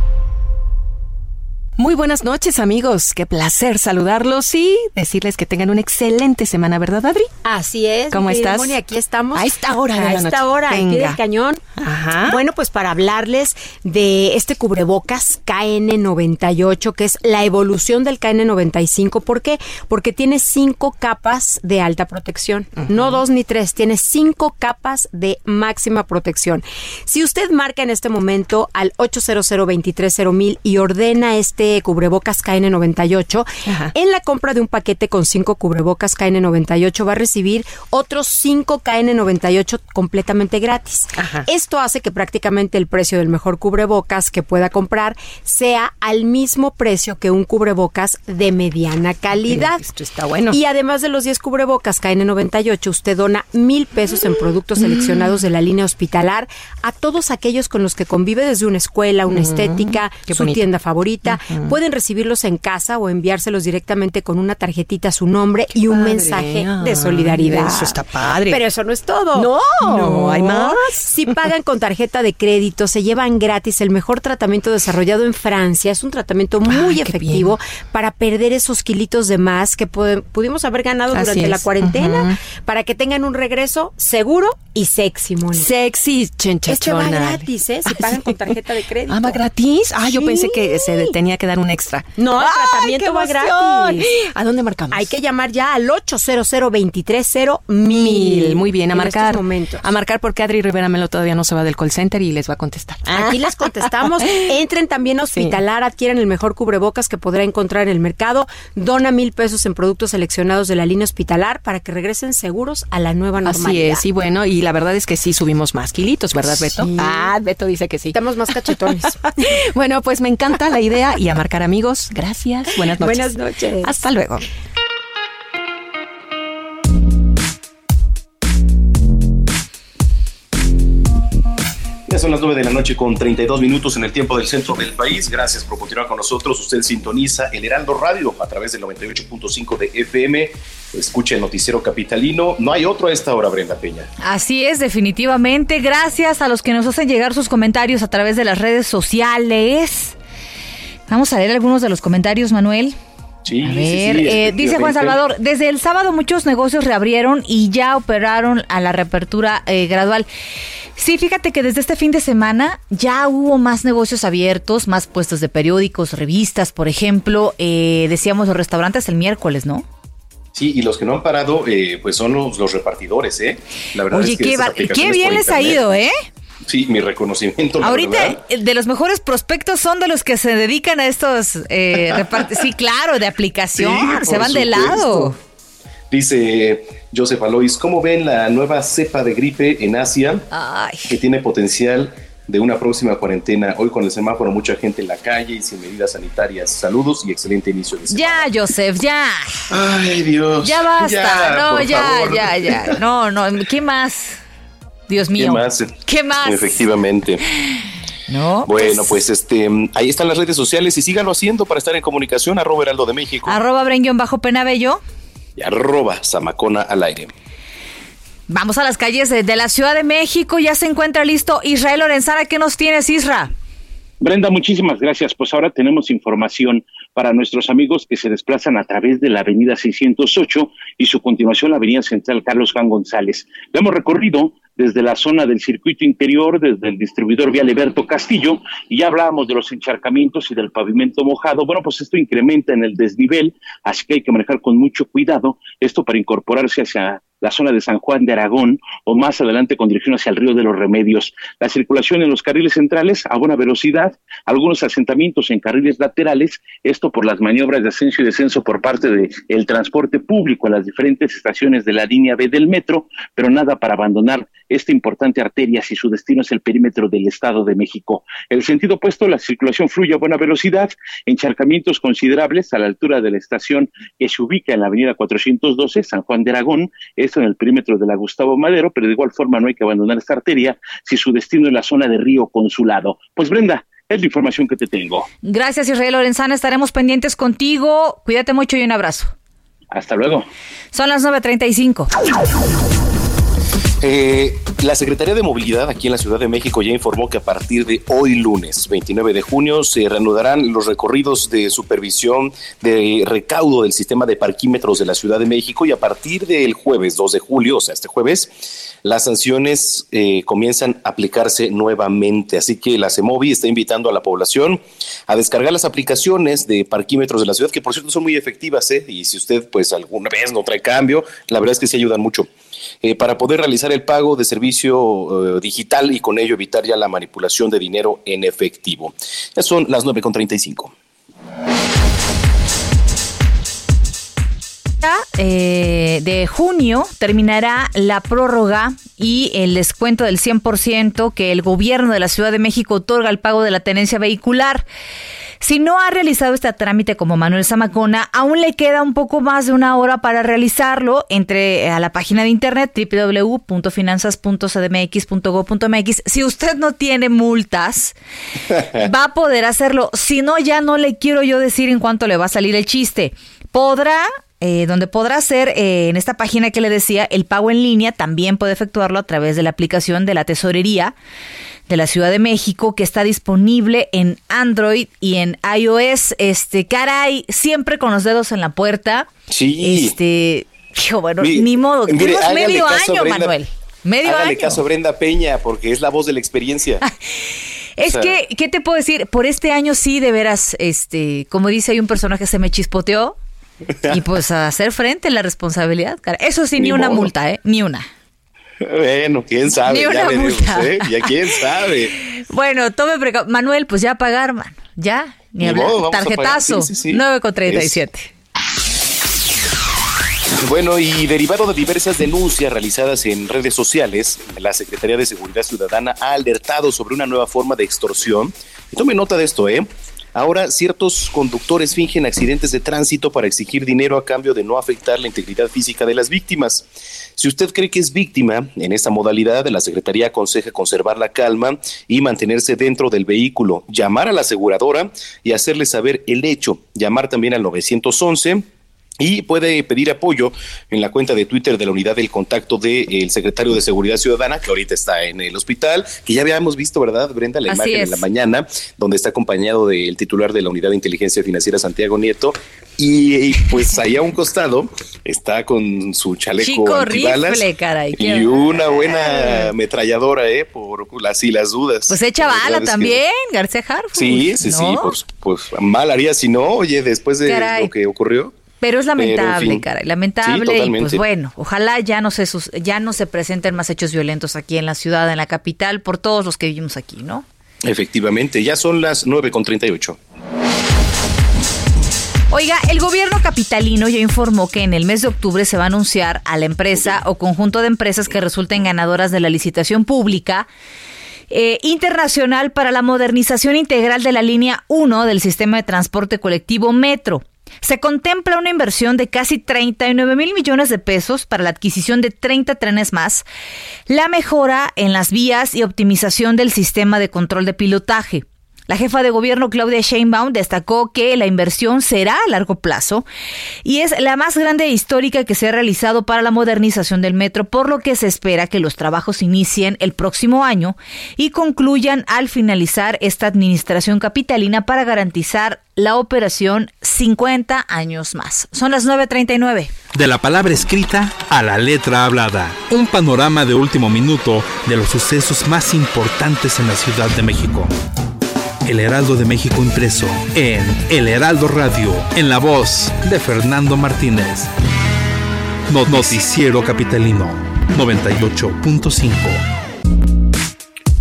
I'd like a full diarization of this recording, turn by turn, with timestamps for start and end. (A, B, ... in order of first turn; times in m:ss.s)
0:01.8-0:07.3 A
0:07.4-0:49.8 B
0:08.1-0:08.8 A
0:09.3-0:11.2 A
0:11.8-0:12.4 A
0:22.8-0:23.2 A
0:33.7-0:33.9 A
0:41.2-0:41.4 A
0:49.4-0:50.6 A
0:50.5-1:25.7 B
0:54.8-0:55.4 A
0:59.3-1:00.7 A
1:01.2-1:01.8 A
1:05.7-1:08.7 A
1:09.3-1:11.4 A
1:16.6-1:17.6 A
1:21.1-1:22.4 A
1:25.5-1:35.2 A
1:26.7-1:29.4 B
1:30.1-1:31.0 B
1:32.2-1:34.1 B
1:34.9-1:39.8 B
1:37.8-1:44.6 A
1:43.0-1:54.0 B
1:45.3-1:45.6 A
1:53.4-2:04.4 A
1:56.6-1:57.3 B
1:58.1-1:59.2 B
2:02.8-2:03.9 B
2:12.1-2:24.1 C
2:24.2-2:30.2 D
2:31.1-2:33.0 D
2:33.4-2:35.2 C
2:33.6-2:40.3 D
2:41.0-2:49.8 D
2:50.5-2:55.8 C
2:54.1-2:56.1 D
2:56.7-2:58.4 C
2:57.8-3:05.4 D
3:03.8-3:05.3 C
3:06.1-3:10.4 C
3:10.5-3:11.2 D
3:11.1-3:18.5 C
3:18.1-3:19.6 D
3:19.7-3:23.0 C
3:20.6-3:24.4 D
3:25.1-3:26.8 D
3:25.4-3:27.4 C
3:28.3-3:29.2 D
3:28.6-3:33.6 C
3:33.4-3:35.0 D
3:35.6-3:37.3 C
3:38.5-3:43.5 D
3:44.2-4:45.2 E
4:45.4-4:49.3 D
4:49.9-4:50.5 E
4:50.9-4:52.1 D
4:54.0-5:22.5 C
5:23.0-5:30.9 C
5:35.0-5:44.8 D
5:45.6-5:58.2 D
5:59.0-6:11.1 D
6:11.9-6:24.8 D
6:19.5-6:20.1 C
6:21.4-6:23.6 C
6:24.2-6:27.0 C
6:28.0-6:33.4 D
6:28.0-6:28.3 C
6:34.1-6:38.0 D
6:36.8-6:37.3 C
6:38.8-6:42.1 C
6:39.8-6:41.3 D
6:42.2-6:48.3 D
6:45.6-6:48.0 C
6:50.6-7:18.6 C
7:19.2-7:43.2 C
7:27.7-7:28.2 D
7:36.6-7:39.7 D
7:42.1-7:45.1 D
7:44.1-7:48.5 C
7:47.4-7:47.9 D
7:48.8-7:57.4 D
7:49.2-7:49.8 C
7:50.4-7:51.2 C
7:57.8-8:00.2 C
8:02.5-8:10.7 D
8:11.5-8:23.4 D
8:24.1-8:33.2 D
8:33.8-8:49.9 D
8:50.1-8:57.9 F
8:58.8-9:04.7 F
9:05.9-9:09.6 F